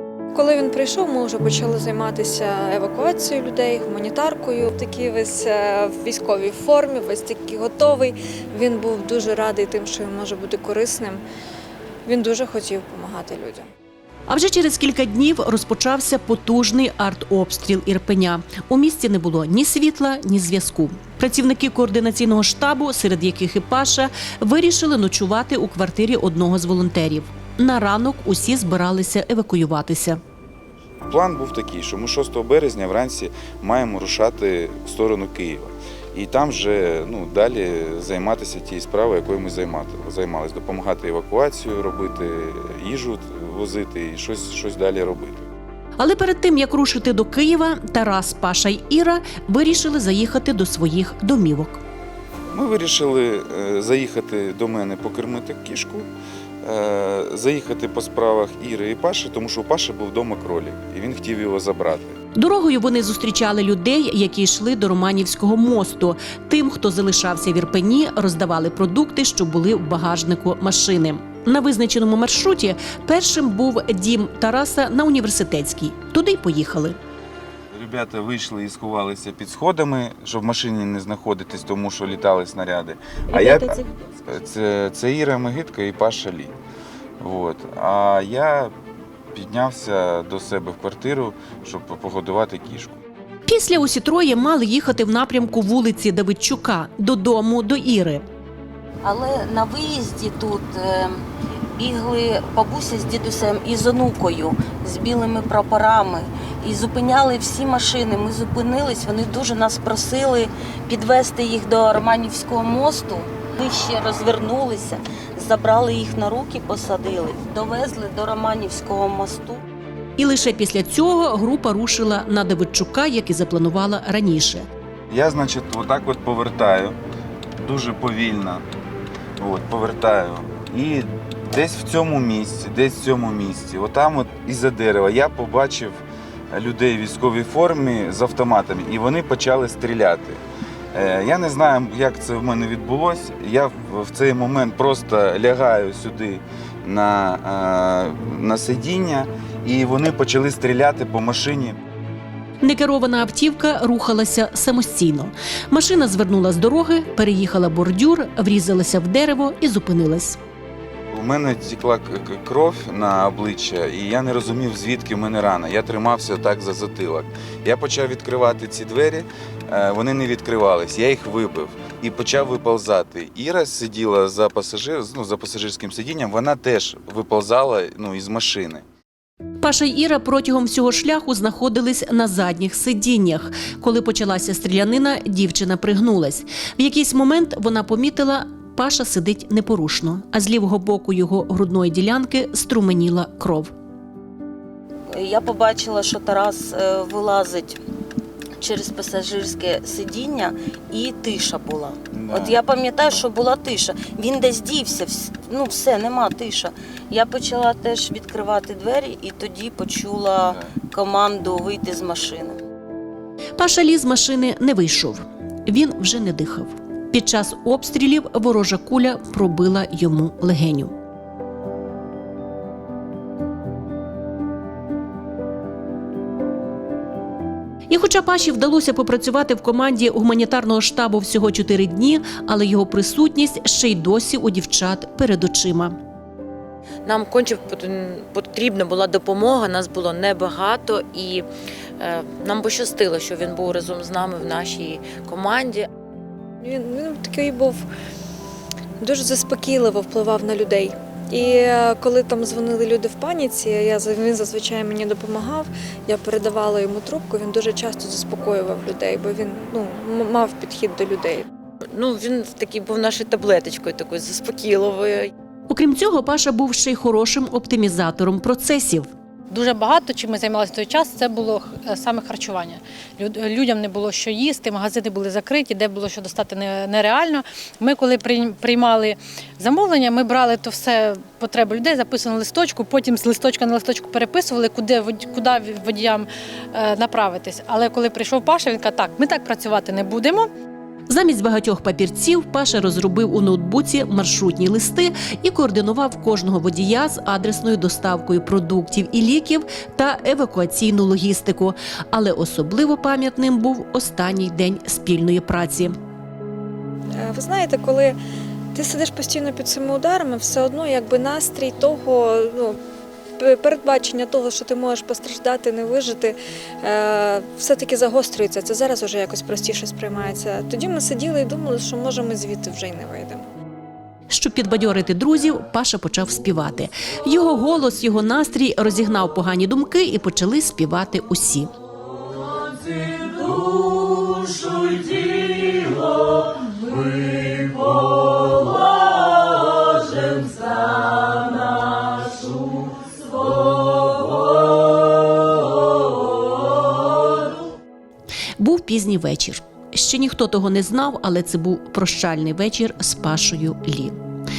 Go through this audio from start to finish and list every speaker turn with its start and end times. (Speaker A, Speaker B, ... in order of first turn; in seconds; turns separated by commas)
Speaker A: 0.3-11.2, Speaker A: 12.1-13.7, Speaker B: 14.3-30.2, Speaker C: 31.1-45.5, Speaker B: 46.0-51.8, Speaker C: 52.5-56.1, Speaker C: 56.6-62.2, Speaker B: 62.3-77.0, Speaker C: 77.7-86.5, Speaker D: 83.3-83.8, Speaker C: 87.2-88.7, Speaker C: 89.3-93.0, Speaker B: 93.5-98.2, Speaker D: 99.0-101.2, Speaker D: 101.7-119.6, Speaker B: 120.2-124.7, Speaker C: 125.1-127.0, Speaker C: 127.6-128.6, Speaker C: 129.4-136.0, Speaker C: 136.5-140.4, Speaker C: 140.9-151.8, Speaker B: 152.6-160.4, Speaker C: 161.1-178.8, Speaker B: 179.6-193.7, Speaker D: 195.1-197.8, Speaker D: 198.6-212.6, Speaker C: 202.1-202.6, Speaker B: 213.6-220.9, Speaker B: 227.9-236.0, Speaker E: 237.0-241.4, Speaker E: 242.0-245.9, Speaker A: 246.6-247.8, Speaker A: 249.0-261.5, Speaker E: 261.9-265.3, Speaker B: 265.7-269.1, Speaker F: 269.5-290.5, Speaker B: 291.1-305.9, Speaker A: 307.2-308.1, Speaker A: 308.7-312.8, Speaker A: 313.4-323.4, Speaker B: 324.3-331.7, Speaker B: 348.6-354.2